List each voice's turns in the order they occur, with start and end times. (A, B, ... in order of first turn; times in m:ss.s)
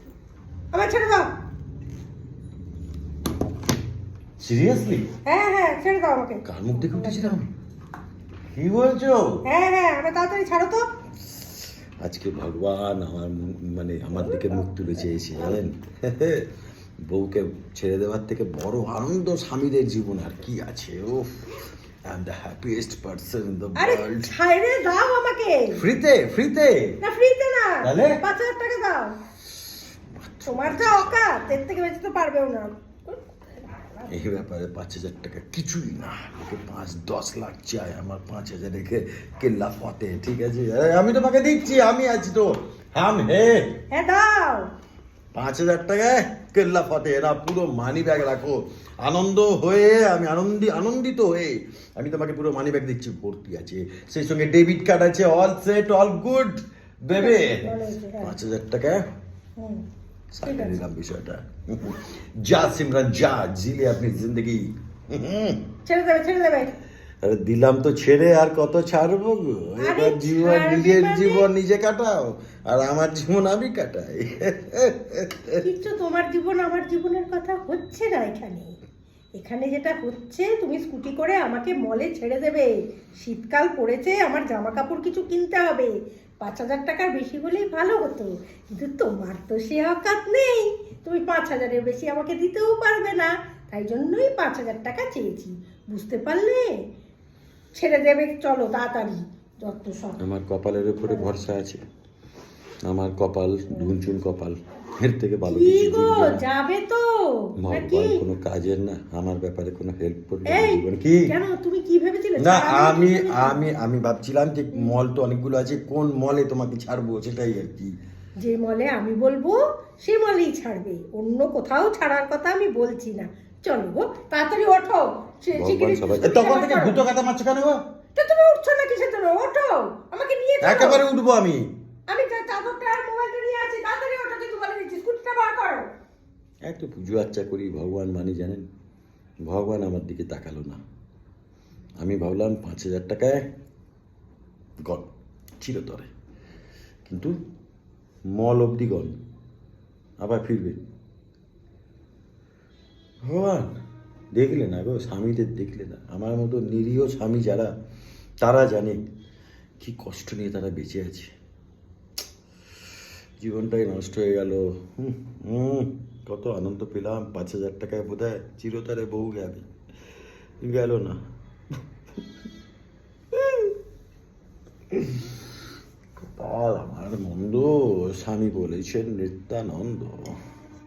0:00.7-0:01.3 A
0:04.4-0:05.0 B
0:05.2-0:07.4 A
0:06.4-0:07.5 B
0:08.5-0:09.4 B
0:09.4-0:10.8 A
0:12.0-0:16.5 B
0:14.1-0:15.6 A
0:17.1-0:21.4 B
0:22.1-0:24.3 B
0:23.8-0:25.8 A
0:25.8-0:27.0 B
0:27.0-0:29.1 A
0:27.8-0:28.2 B
0:30.2-0:31.2 B
0:30.4-0:33.2 A
0:33.7-0:34.1 A
0:34.1-0:43.7 B
0:43.9-0:44.7 A
0:45.3-0:59.0 B
0:57.2-0:58.3 A
0:59.6-0:59.8 A
1:00.3-1:05.6 B
1:00.4-1:00.8 A
1:05.9-1:06.8 A
1:07.2-1:15.6 B
1:09.8-1:11.5 A
1:15.6-1:18.8 A
1:19.4-1:36.7 A
1:37.7-1:40.2 A
1:40.2-1:41.8 B
1:41.0-1:41.3 A
1:42.8-1:46.4 B
1:45.5-1:48.2 A
1:47.6-1:51.3 B
1:50.5-1:53.6 A
1:52.4-1:57.9 B
1:58.4-2:07.0 A
2:05.5-2:07.8 B
2:08.2-2:11.0 A
2:10.6-2:11.7 B
2:12.1-2:15.8 A
2:16.6-2:18.6 B
2:19.5-2:20.8 B
2:22.0-2:23.4 B
2:25.6-2:26.1 B
2:27.0-2:27.3 B
2:28.4-2:29.2 B
2:30.2-2:30.8 B
2:33.3-2:33.7 B
2:34.4-2:37.7 B
2:38.4-2:39.0 B
2:39.8-2:41.3 B
2:43.4-2:49.6 B
2:50.6-2:51.2 B
2:53.3-2:53.7 B
2:54.9-2:55.4 B
2:56.2-3:00.3 B